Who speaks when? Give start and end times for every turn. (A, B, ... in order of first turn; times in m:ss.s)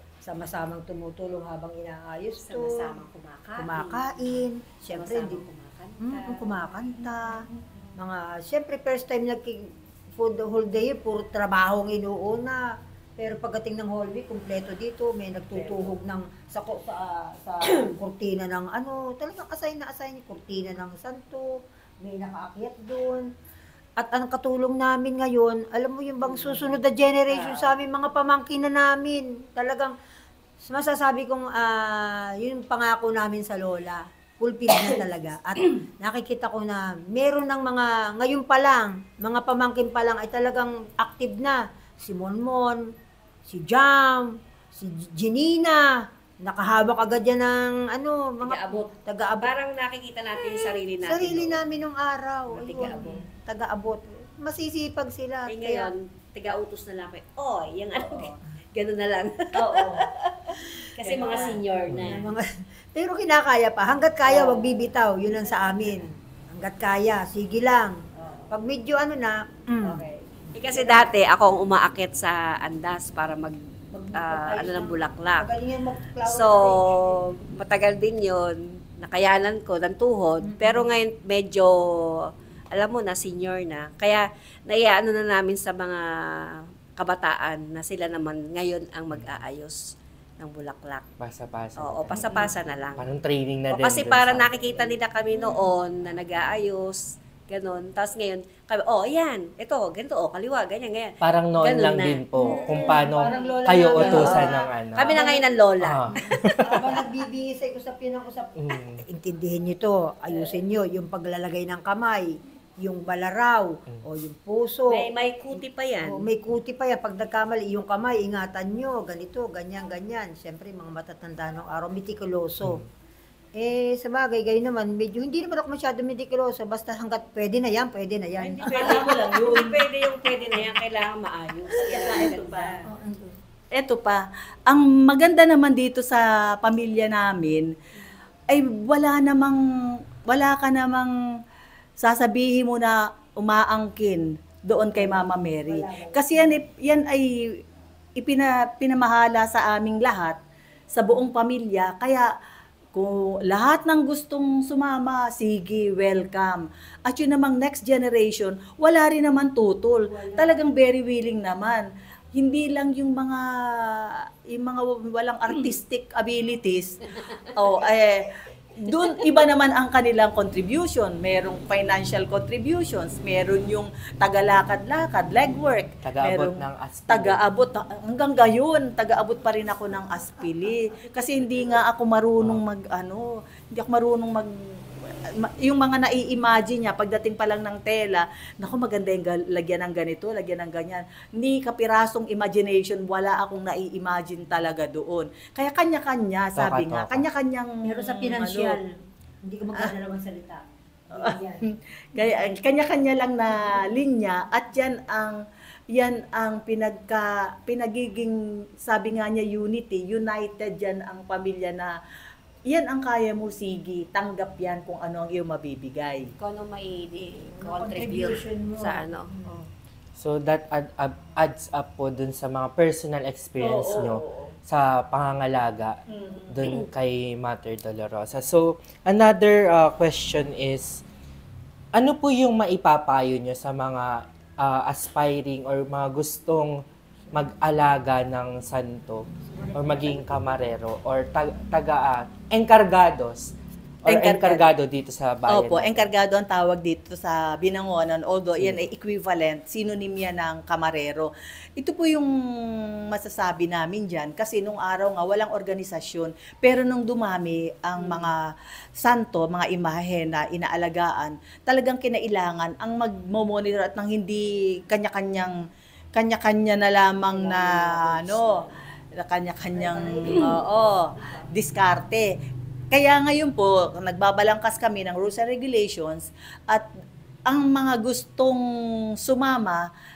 0:00.2-0:03.0 A
0:02.4-0:06.8 B
0:03.6-0:05.5 A
0:06.0-0:23.3 A
0:07.0-0:07.4 C
0:15.5-0:15.9 B
0:24.0-0:30.0 A
0:26.2-0:27.8 B
0:30.6-0:42.9 A
0:43.5-0:49.5 A
0:48.4-0:51.6 B
0:51.0-0:55.9 A
0:52.5-0:53.2 B
0:55.5-1:02.3 B
0:58.0-0:58.4 C
0:59.6-1:00.1 C
1:01.0-1:01.6 C
1:02.0-1:10.0 A
1:04.2-1:04.9 B
1:08.2-1:08.5 B
1:09.8-1:13.6 B
1:10.6-1:11.1 A
1:13.9-1:17.2 A
1:14.1-1:15.5 B
1:16.2-1:29.8 B
1:20.4-1:20.9 A
1:29.1-1:29.4 D
1:30.4-1:31.1 B
1:31.2-1:32.4 D
1:31.8-1:33.0 B
1:33.0-1:34.5 D
1:33.7-1:43.3 B
1:41.2-1:45.2 D
1:42.4-1:45.4 A
1:43.4-1:44.5 C
1:43.9-1:46.4 B
1:45.8-1:47.0 D
1:46.6-1:55.1 A
1:48.6-1:49.0 D
1:54.9-1:56.3 B
1:56.0-2:02.8 A
2:02.6-2:02.9 D
2:03.6-2:09.1 A
2:08.4-2:12.9 B
2:08.6-2:09.9 C
2:11.7-2:12.8 C
2:12.8-2:13.4 A
2:13.7-2:17.7 C
2:18.5-2:19.6 C
2:20.3-2:21.1 C
2:22.0-2:27.6 C
2:24.9-2:26.6 A
2:28.2-2:30.4 C
2:30.9-2:32.3 C
2:32.9-3:18.8 C
2:40.1-2:40.6 A
2:56.0-2:57.4 D
3:16.6-3:17.3 D
3:17.8-3:21.6 A
3:21.2-3:32.0 C
3:32.7-3:36.3 C
3:36.4-3:39.6 B
3:37.5-3:39.6 A
3:40.2-3:51.0 D
3:43.6-3:44.6 C
3:46.1-3:46.5 C
3:52.0-4:03.5 D
3:59.5-4:00.6 A
4:04.0-4:06.1 D
4:04.1-4:04.7 C
4:05.5-4:12.3 C
4:08.6-4:08.9 D
4:13.1-4:25.6 C
4:26.1-4:28.6 C
4:27.1-4:28.8 A
4:29.2-4:32.3 C
4:29.7-4:31.5 A
4:32.9-4:36.9 C
4:37.5-4:38.6 C
4:39.2-4:39.9 C